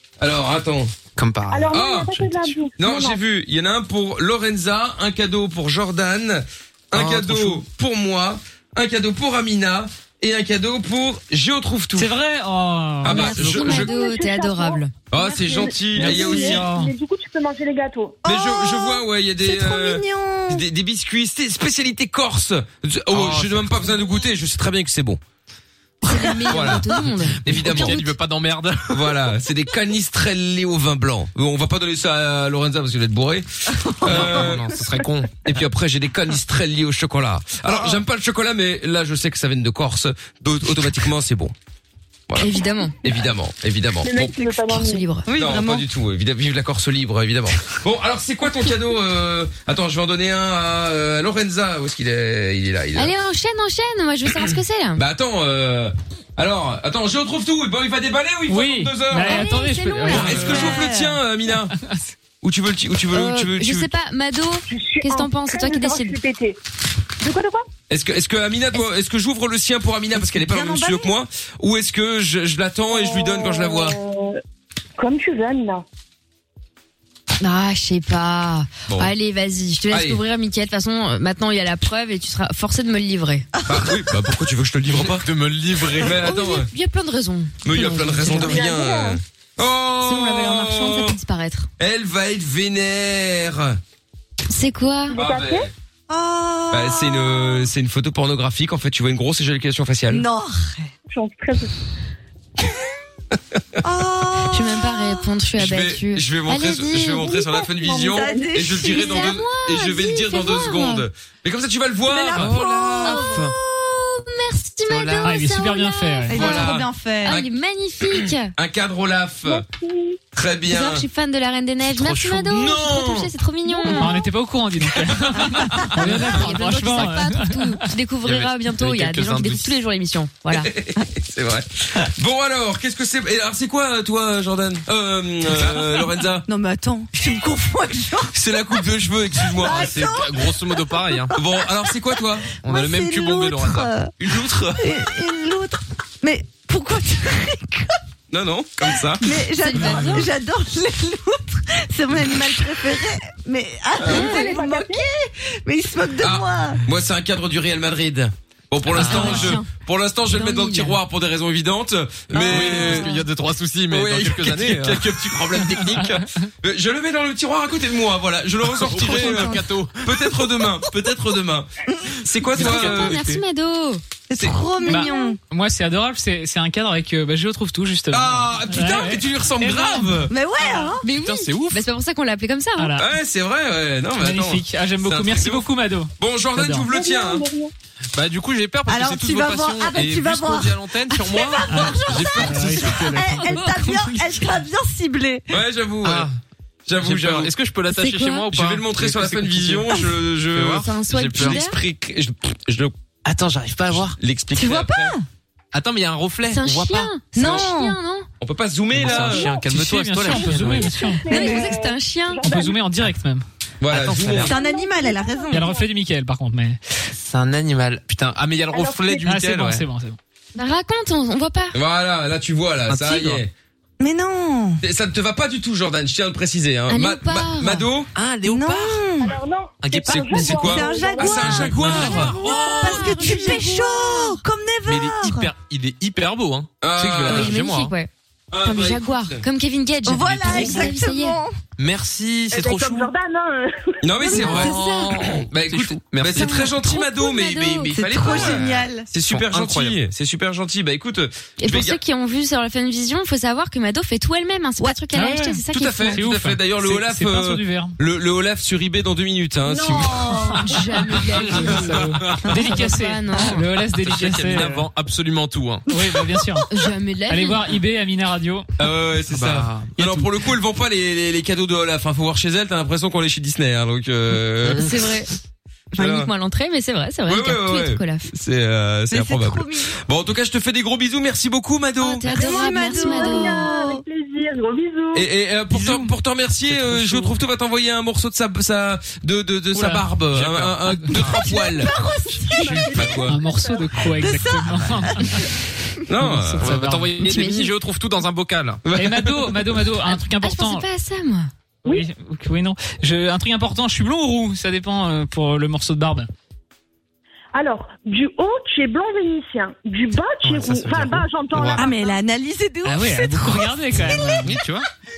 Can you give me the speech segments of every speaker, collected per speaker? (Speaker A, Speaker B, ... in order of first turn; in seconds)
Speaker A: 0.2-0.9, 1.7-2.1, 2.8-12.1, 13.0-13.9, 15.1-16.6, 18.2-25.2, 26.5-28.0, 28.9-34.7, 35.4-41.5, 42.3-44.4, 45.3-53.1, 55.0-59.5, 60.1-61.7, 62.4-63.9, 67.9-74.0, 78.9-79.1, 79.9-80.2, 83.7-85.3, 86.0-86.7, 87.6-91.2, 91.8-93.8, 95.1-95.7, 96.7-100.2, 105.6-113.5, 116.3-117.5, 118.1-119.7, 120.3-121.0, 122.5-123.3, 130.5-136.4, 138.3-139.9, 141.3-142.5, 144.2-144.8, 148.3-149.2, 154.0-154.4, 156.2-163.1, 163.9-173.2, 178.1-180.3, 183.0-185.7, 186.2-187.4, 192.1-192.8, 195.5-196.3, 196.9-197.5, 198.5-202.9, 204.2-205.2, 208.4-209.5, 213.8-214.6, 221.7-223.5, 224.8-228.1, 230.1-233.2, 236.8-237.5, 238.5-239.4, 240.4-240.8, 244.0-252.0, 255.7-260.3, 268.8-275.0, 276.0-276.3, 277.3-282.3, 285.1-291.9, 292.9-293.4, 296.1-296.7, 298.8-299.5
Speaker B: 1.1-2.5, 6.9-7.6, 23.1-24.0, 27.4-29.2, 34.0-35.3, 84.9-86.3, 114.9-115.3, 121.9-122.6, 128.2-129.8, 139.6-141.3, 142.6-143.9, 158.9-159.6, 162.4-165.4, 168.6-170.1, 172.5-173.4, 181.1-181.8, 188.1-192.9, 196.0-196.4, 197.0-200.0, 200.5-201.6, 203.2-204.2, 205.7-207.6, 208.9-211.1, 213.9-214.5, 217.1-219.8, 222.9-223.4, 228.1-229.1, 229.8-230.7, 231.3-233.6, 234.8-237.9, 241.8-243.1, 244.3-246.7, 248.4-248.7, 249.3-250.0, 261.4-262.5, 263.9-265.9, 269.3-269.9, 286.7-287.2, 290.3-291.4, 296.6-298.8, 310.4-311.8, 314.4-314.9
Speaker C: 1.5-3.2, 13.5-18.2, 44.0-45.1, 64.7-66.6, 67.2-67.7, 72.9-74.4, 75.0-75.8, 88.3-89.2, 95.1-95.7, 101.1-101.7, 107.1-108.7, 119.5-120.2, 154.0-155.1, 186.8-187.7, 209.3-209.6, 210.3-212.8, 214.5-215.8, 218.7-219.3, 229.2-231.7, 242.5-244.3, 259.7-260.3, 282.3-285.2, 292.3-294.0, 307.5-312.2
Speaker D: 11.9-13.5, 15.9-16.9, 58.5-60.8, 115.2-116.4, 123.9-127.8, 174.9-180.1, 182.8-183.1, 184.2-186.9, 191.7-194.1, 209.5-211.3, 212.4-213.4, 215.5-216.8, 219.2-220.2, 255.2-255.4, 256.1-257.9, 261.5-264.8, 265.9-266.6, 267.3-268.7, 270.0-270.3, 289.7-290.0, 293.0-295.4, 296.2-297.4, 298.9-300.8, 301.9-306.3, 312.8-314.5
Speaker E: 13.0-14.9, 26.0-28.1, 42.4-43.0, 44.6-45.3, 53.0-55.0, 59.2-60.9, 63.1-66.2, 77.4-83.5, 86.1-88.6, 90.0-91.7, 94.5-95.2, 104.5-107.3, 108.7-111.0, 113.0-118.5, 120.7-124.2, 126.1-130.7, 149.4-150.3, 154.1-154.5, 158.9-159.7, 160.3-161.0, 172.6-174.0, 174.8-175.3, 181.0-182.9, 193.3-194.1, 197.9-198.4, 200.8-201.8, 206.5-208.3, 211.2-212.5, 220.5-221.7, 226.9-227.8, 233.2-234.3, 237.3-238.1, 238.6-241.4, 244.3-245.2, 246.3-248.4, 251.6-256.2, 260.2-261.9, 262.5-263.6, 266.7-267.6, 274.8-275.3, 276.0-278.3, 282.0-283.7, 297.2-297.7, 300.3-301.5
Speaker F: 18.2-20.6, 26.1-26.5, 33.9-34.3, 45.3-45.8, 60.1-61.2, 70.2-71.1, 83.6-83.9, 96.1-97.7, 100.1-100.9, 103.8-105.3, 108.0-109.3, 112.1-113.5, 116.3-117.4, 125.4-125.9, 136.5-138.3, 139.4-141.4, 142.6-144.1, 144.8-147.9, 149.2-156.8, 162.3-163.1, 169.1-169.5, 174.3-175.4, 180.3-181.0, 188.9-195.5, 204.6-205.2, 207.3-208.0, 211.4-211.7, 214.3-215.7, 224.0-224.8, 228.4-229.3, 230.5-235.5, 240.0-241.6, 244.5-244.7, 247.9-249.1, 254.8-255.6, 260.0-260.7, 279.1-280.0, 282.2-284.1, 291.5-292.5, 294.0-295.4, 311.7-313.6